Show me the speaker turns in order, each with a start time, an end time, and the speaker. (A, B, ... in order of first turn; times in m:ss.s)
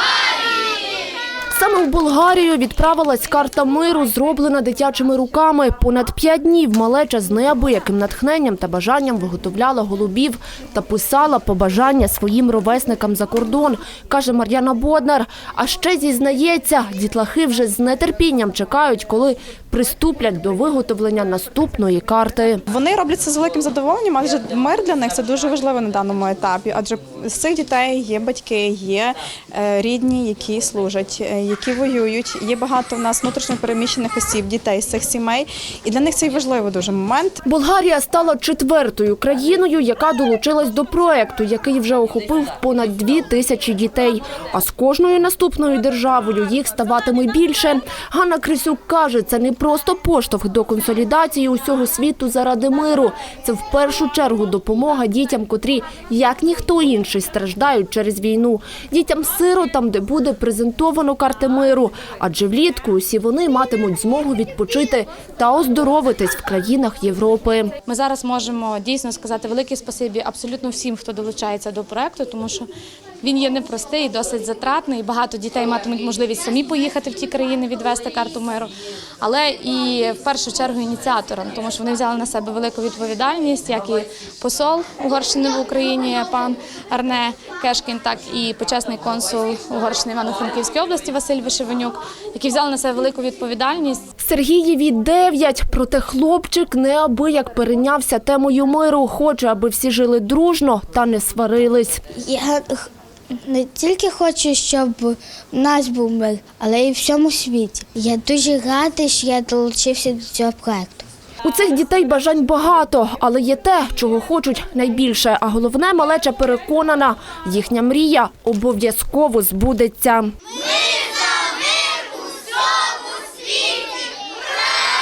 0:01.5-0:22.6 A
0:22.7-0:37.4 B
0:37.4-1:07.7 A
1:07.8-1:12.7 C
1:13.2-1:34.0 C
1:34.2-1:42.0 A
1:42.2-1:42.9 D
1:43.4-1:51.0 D
1:51.4-2:00.3 A